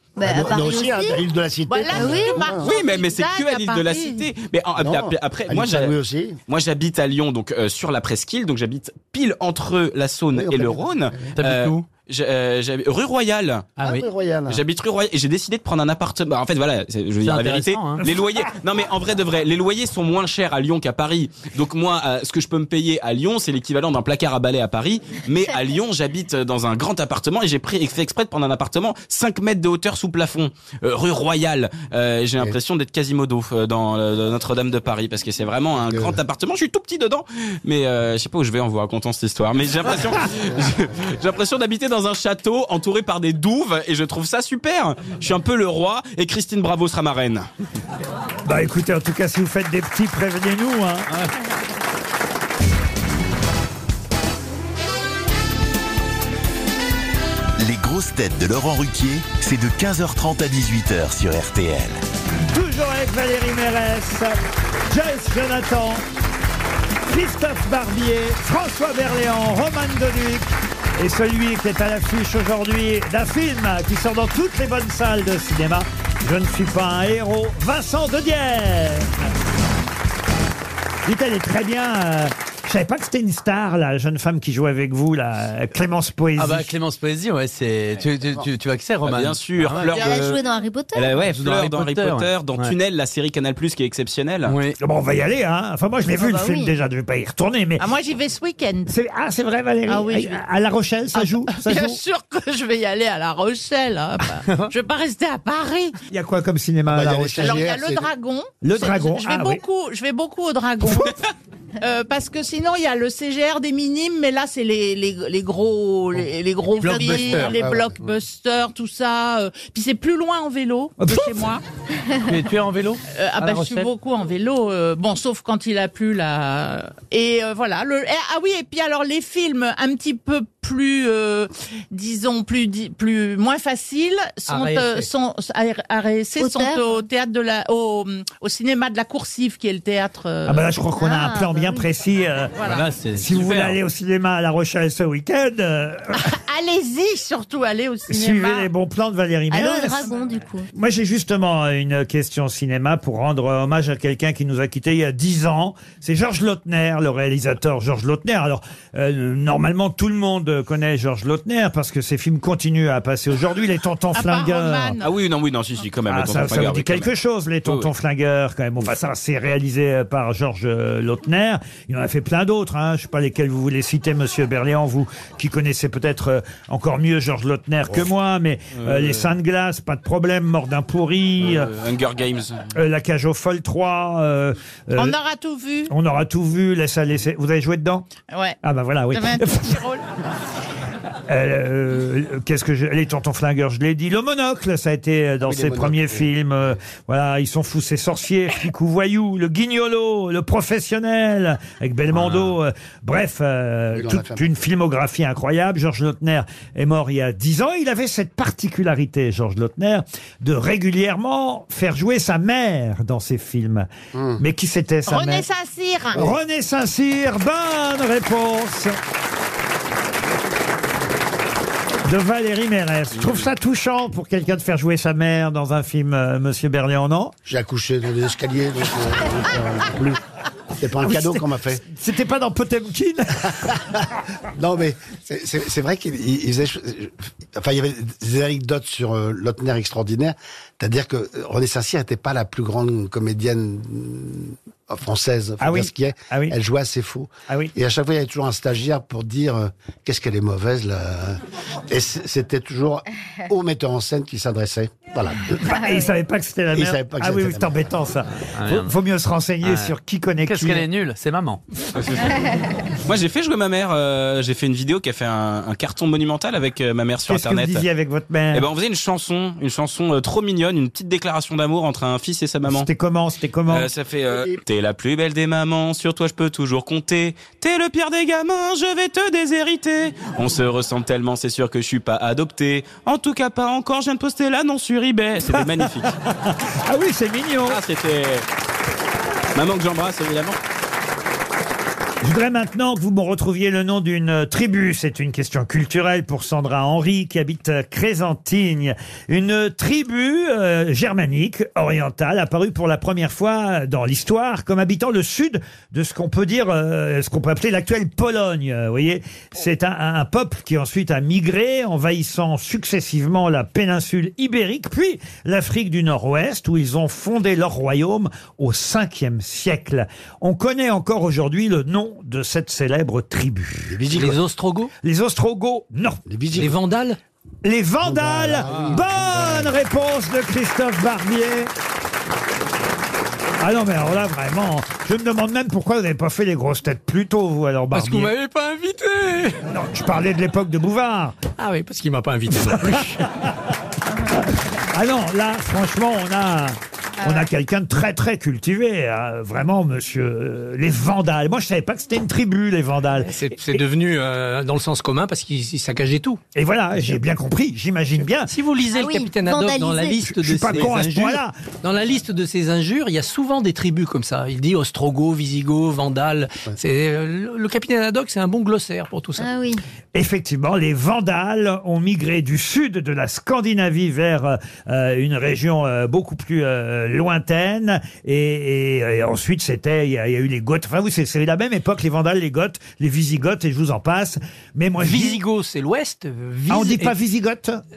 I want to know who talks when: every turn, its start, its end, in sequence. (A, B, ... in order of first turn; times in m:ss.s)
0:00.2-0:01.2 A
0:00.2-0:02.7 B
0:01.7-0:04.3 C
0:01.9-0:02.4 A
0:02.6-0:05.9 D
0:04.8-0:06.4 B
0:06.5-0:13.7 D
0:10.3-0:11.3 B
0:11.4-0:11.8 E
0:13.8-0:14.6 B
0:14.5-0:47.5 D
0:17.2-0:18.0 E
0:35.8-0:36.2 B
0:48.4-0:51.1 F
0:57.6-1:02.0 G
1:02.5-1:04.4 F
1:04.9-1:06.0 F
1:07.1-1:19.3 F
1:21.0-1:26.7 F
1:26.4-1:30.1 E
1:29.0-1:30.4 D
1:29.9-1:31.2 A
1:30.9-1:34.6 D
1:31.1-1:32.7 E
1:34.4-1:34.8 E
1:34.8-1:37.8 F
1:36.3-1:36.7 A
1:37.8-1:38.9 C
1:38.9-1:42.0 F
1:39.9-1:40.4 C
1:41.1-1:46.0 C
1:44.4-1:44.7 E
1:46.1-1:47.6 F
1:46.9-1:48.0 B
1:47.4-1:51.2 C
1:48.6-1:49.6 F
1:51.8-2:01.6 C
1:56.8-1:57.6 E
1:57.3-1:58.0 B
2:01.0-2:01.4 F
2:02.2-2:03.9 E
2:03.1-2:20.7 C
2:14.5-2:15.0 H
2:16.4-2:17.0 A
2:20.4-2:22.6 F
2:21.0-2:21.9 A
2:22.6-2:22.9 C
2:22.6-2:23.4 E
2:23.1-2:26.3 F
2:23.4-2:23.7 D
2:26.2-2:28.7 C
2:28.1-2:30.0 F
2:29.5-2:30.7 A
2:29.8-2:30.2 C
2:30.7-2:45.0 F
2:44.1-2:45.1 C
2:45.0-2:47.1 D
2:46.1-3:01.7 F
3:01.4-3:02.7 D
3:02.7-3:05.2 F
3:05.0-3:05.9 C
3:05.9-3:08.1 F
3:08.3-3:08.6 C
3:08.6-3:09.8 F
3:09.1-3:10.0 C
3:11.3-3:35.4 F
3:15.4-3:16.3 B
3:23.9-3:24.4 B
3:34.1-3:34.4 B
3:35.0-3:36.2 C
3:36.1-3:39.0 F
3:42.0-3:47.3 F
3:47.4-3:50.2 B
3:50.8-3:51.8 B
3:51.0-3:53.8 F
3:53.6-3:54.0 B
3:54.6-4:15.6 B
4:05.6-4:06.6 F
4:07.5-4:07.7 F
4:15.6-4:20.9 F
4:15.7-4:16.1 A
4:16.7-4:17.8 B
4:18.5-4:18.9 E
4:19.6-4:19.9 E
4:20.4-4:21.6 E
4:22.0-4:27.8 D
4:27.3-4:28.7 F
4:28.5-4:32.9 D
4:32.7-4:33.9 F
4:33.7-4:46.2 D
4:34.3-4:34.6 B
4:45.5-4:47.8 F
4:47.7-4:48.4 D
4:49.6-4:50.6 D
4:52.2-5:24.0 F
5:23.9-5:24.4 B
5:24.1-5:24.9 H
5:25.0-5:26.2 F
5:26.3-5:26.7 B
5:26.6-5:27.2 H
5:27.6-5:31.7 F
5:28.0-5:29.7 B
5:33.6-5:38.3 F
5:37.9-5:39.6 H
5:39.7-5:41.4 F
5:41.6-5:43.3 H
5:42.9-5:43.5 F
5:44.7-5:53.8 F
5:53.2-5:56.4 H
5:56.6-5:58.5 F
5:58.4-6:09.4 H
5:58.9-6:00.3 A
6:00.3-6:01.6 F
6:09.4-6:09.8 A
6:10.1-6:25.4 F
6:25.0-6:27.2 H
6:26.7-6:27.8 F